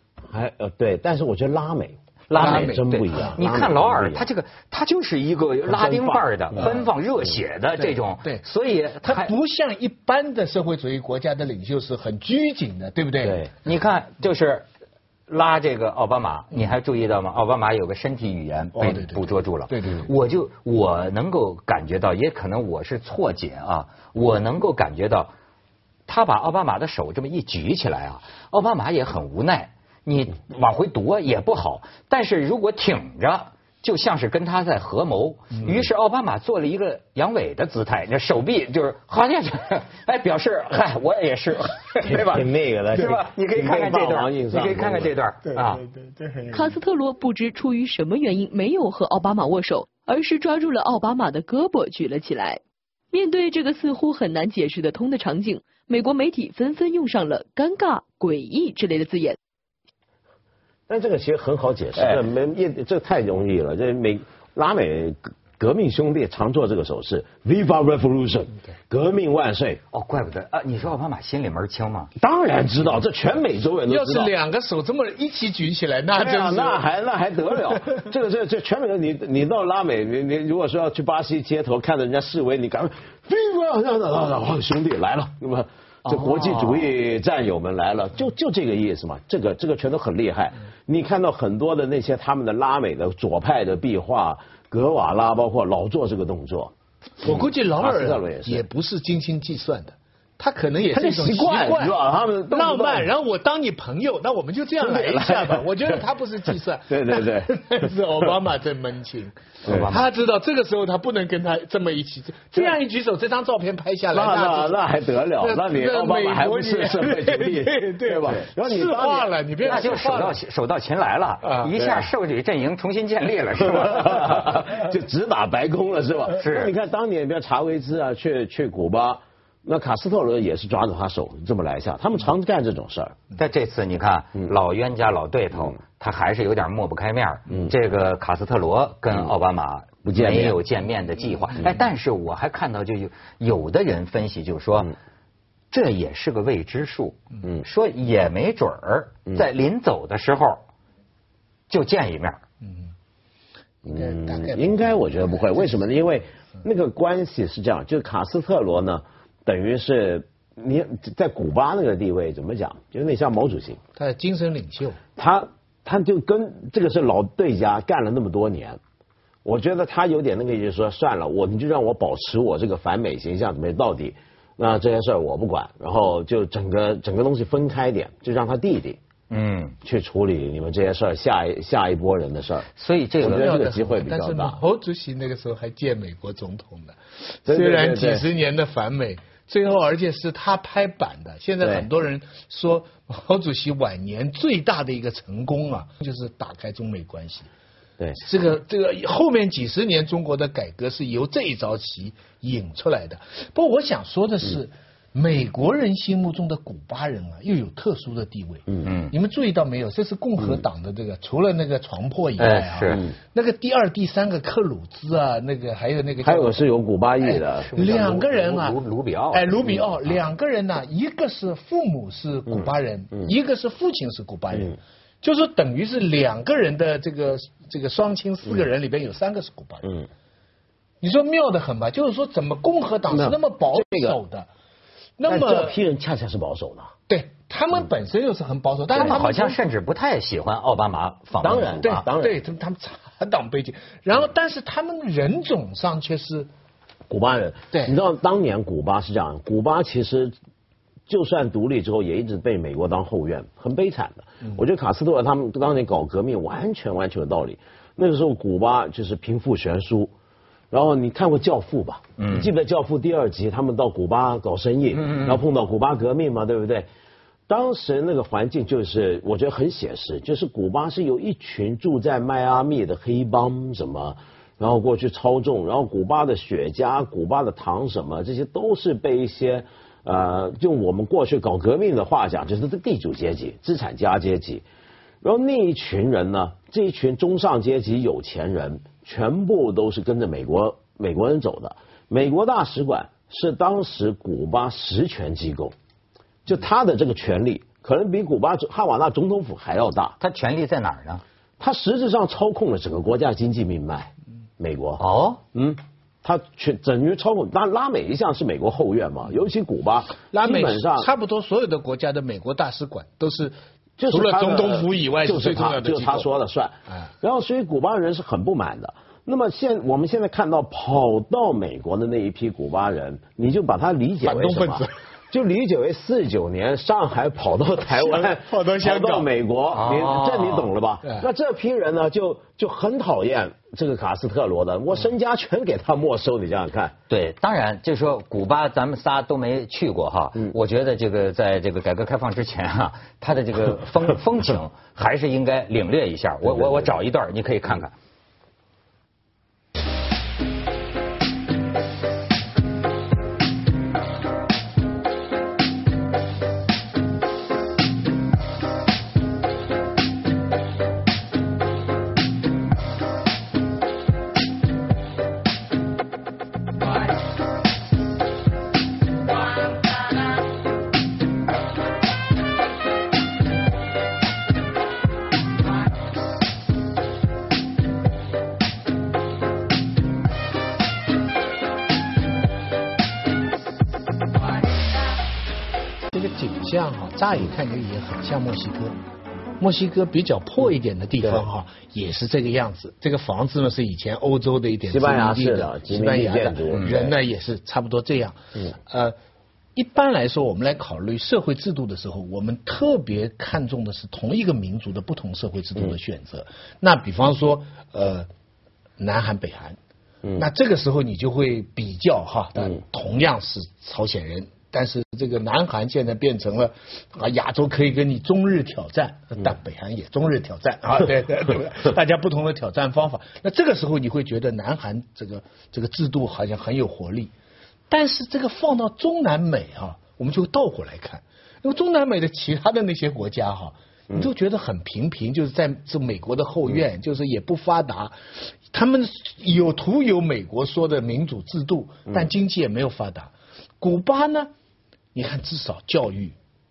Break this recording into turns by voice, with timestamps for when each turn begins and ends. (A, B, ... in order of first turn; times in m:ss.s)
0:00.3-0:04.3 A
0:02.3-0:09.3 B
0:02.4-0:03.4 C
0:05.7-0:06.7 A
0:07.8-0:08.4 C
0:09.0-0:13.4 C
0:13.2-0:13.5 A
0:13.6-0:14.6 B
0:15.3-0:25.3 B
0:18.8-0:20.1 C
0:26.1-0:45.8 B
0:42.0-0:45.1 A
0:45.9-0:46.5 C
0:46.5-0:52.6 D
0:53.1-0:59.4 D
1:00.9-1:09.8 A
1:09.9-1:12.1 B
1:12.2-1:14.3 A
1:13.9-1:16.8 C
1:16.1-1:38.6 A
1:26.0-1:26.9 B
1:37.2-1:42.0 C
1:40.9-1:43.1 A
1:42.5-1:54.8 C
1:44.8-1:46.0 A
1:46.9-1:48.3 A
1:49.6-1:50.1 B
1:49.6-1:50.0 A
1:54.1-2:00.0 A
1:55.4-2:00.4 C
1:59.6-2:04.6 B
2:01.4-2:01.7 C
2:03.6-2:13.2 A
2:06.4-2:06.7 B
2:13.4-2:24.9 B
2:20.0-2:20.6 A
2:25.7-2:30.6 B
2:31.7-2:32.4 B
2:33.8-2:35.8 C
2:33.8-2:43.8 A
2:44.0-2:45.0 C
2:45.2-2:48.8 A
2:49.4-2:59.0 A
2:59.3-2:59.8 B
2:59.8-3:02.7 A
3:02.8-3:03.5 B
3:03.2-3:04.6 A
3:03.2-3:17.5 C
3:07.5-3:08.2 A
3:11.6-3:11.9 A
3:18.0-3:18.2 A
3:18.2-3:36.6 C
3:28.8-3:29.1 B
3:32.4-3:33.0 B
3:36.2-3:38.0 A
3:37.2-3:38.8 C
3:37.6-3:39.8 B
3:39.3-3:49.9 C
3:51.0-3:54.5 C
3:53.1-3:54.2 A
3:55.2-3:55.8 C
3:55.3-3:56.9 A
3:57.1-3:59.6 C
3:58.9-4:02.0 B
4:01.4-4:02.4 A
4:01.8-4:06.5 C
4:07.1-4:10.3 A
4:07.7-4:08.0 C
4:11.1-4:20.1 A
4:20.7-4:26.9 A
4:22.2-4:22.5 B
4:24.9-4:25.4 B
4:27.5-4:44.6 A
4:45.2-4:55.7 A
4:56.4-5:00.2 A
5:00.2-5:01.2 B
5:01.6-5:11.1 A
5:05.0-5:05.4 B
5:10.3-5:13.6 C
5:14.0-5:36.9 A
5:14.1-5:16.3 C
5:24.2-5:24.9 C
5:27.9-5:29.3 C
5:29.7-5:30.7 B
5:37.1-5:47.9 B
6:26.1-6:29.0 C
6:29.6-6:39.1 C
6:34.9-6:37.1 A
6:39.8-6:48.3 C
6:49.0-6:49.8 C
6:50.4-7:07.3 C
7:07.9-7:24.5 C
7:25.1-7:26.4 C